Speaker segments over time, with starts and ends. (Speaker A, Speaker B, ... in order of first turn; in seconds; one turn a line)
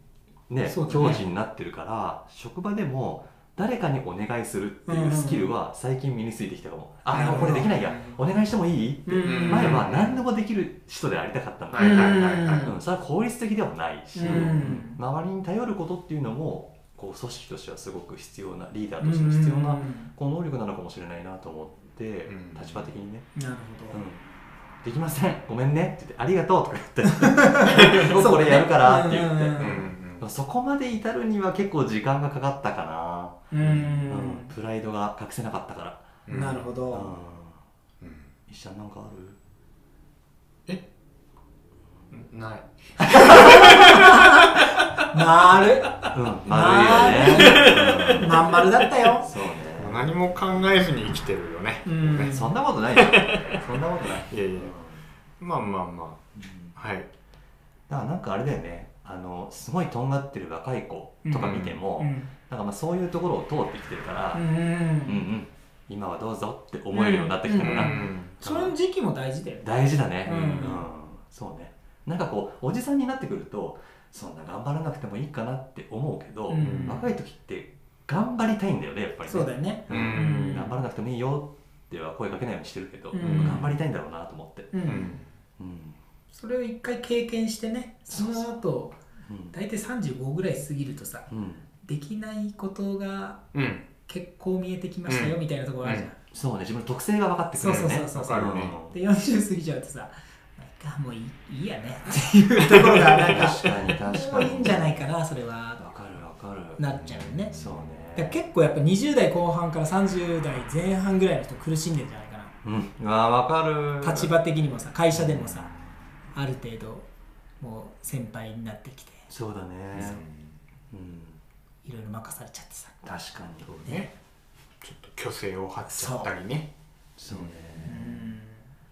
Speaker A: 0.5-23.3
Speaker B: 0.7-1.2
Speaker B: 4.8-5.5
Speaker B: 7.1-7.8
Speaker C: 7.4-8.2
Speaker B: 9.1-9.8
Speaker C: 9.2-10.2
Speaker C: 11.7-12.7
Speaker B: 11.8-12.7
Speaker B: 14.1-15.0
Speaker C: 14.2-14.6
Speaker B: 19.0-20.1
Speaker C: 22.3-22.9
Speaker B: 23.3-24.0
Speaker A: 23.9-24.2
Speaker A: 24.8-37.6
Speaker B: 27.2-29.8
Speaker C: 29.6-30.2
Speaker B: 33.5-34.5
Speaker C: 33.6-33.9
Speaker C: 36.2-36.7
Speaker B: 36.3-37.1
Speaker C: 38.0-38.3
Speaker A: 38.5-39.4
Speaker C: 42.1-44.4
Speaker B: 43.2-44.3
Speaker B: 45.1-49.3
Speaker A: 46.1-48.6
Speaker C: 47.2-48.6
Speaker A: 49.2-50.0
Speaker C: 49.8-52.4
Speaker B: 51.8-52.5
Speaker A: 52.0-55.1
Speaker C: 52.9-53.5
Speaker C: 54.3-54.7
Speaker C: 55.4-56.2
Speaker A: 56.3-56.8
Speaker C: 56.7-57.1
Speaker A: 57.9-68.0
Speaker B: 61.2-62.3
Speaker C: 61.4-61.8
Speaker B: 64.3-65.3
Speaker B: 66.9-70.8
Speaker C: 67.5-68.7
Speaker A: 69.6-84.7
Speaker C: 70.2-70.7
Speaker B: 76.5-77.1
Speaker C: 76.6-77.0
Speaker B: 79.2-80.8
Speaker C: 79.9-80.6
Speaker B: 83.1-83.8
Speaker C: 83.2-83.6
Speaker B: 84.7-85.2
Speaker C: 84.8-85.3
Speaker A: 85.6-86.0
Speaker B: 86.3-89.0
Speaker A: 88.1-88.5
Speaker A: 89.2-89.5
Speaker B: 89.5-91.3
Speaker A: 91.3-91.7
Speaker B: 91.8-93.4
Speaker C: 93.5-93.9
Speaker B: 94.1-96.2
Speaker C: 95.1-96.1
Speaker A: 96.3-99.0
Speaker B: 97.5-105.8
Speaker C: 97.6-98.7
Speaker C: 102.7-103.3
Speaker A: 103.1-104.9
Speaker A: 105.8-108.4
Speaker B: 106.8-107.5
Speaker B: 108.1-112.5
Speaker A: 112.6-114.3
Speaker B: 114.0-115.7
Speaker A: 115.1-115.7
Speaker B: 116.3-117.1
Speaker B: 117.6-119.2
Speaker A: 119.3-120.2
Speaker C: 119.9-120.6
Speaker A: 120.9-121.4
Speaker B: 121.8-123.0
Speaker A: 123.0-123.7
Speaker C: 123.6-124.1
Speaker B: 123.8-124.1
Speaker C: 124.8-126.7
Speaker B: 125.8-126.3
Speaker A: 127.2-128.3
Speaker B: 127.8-128.6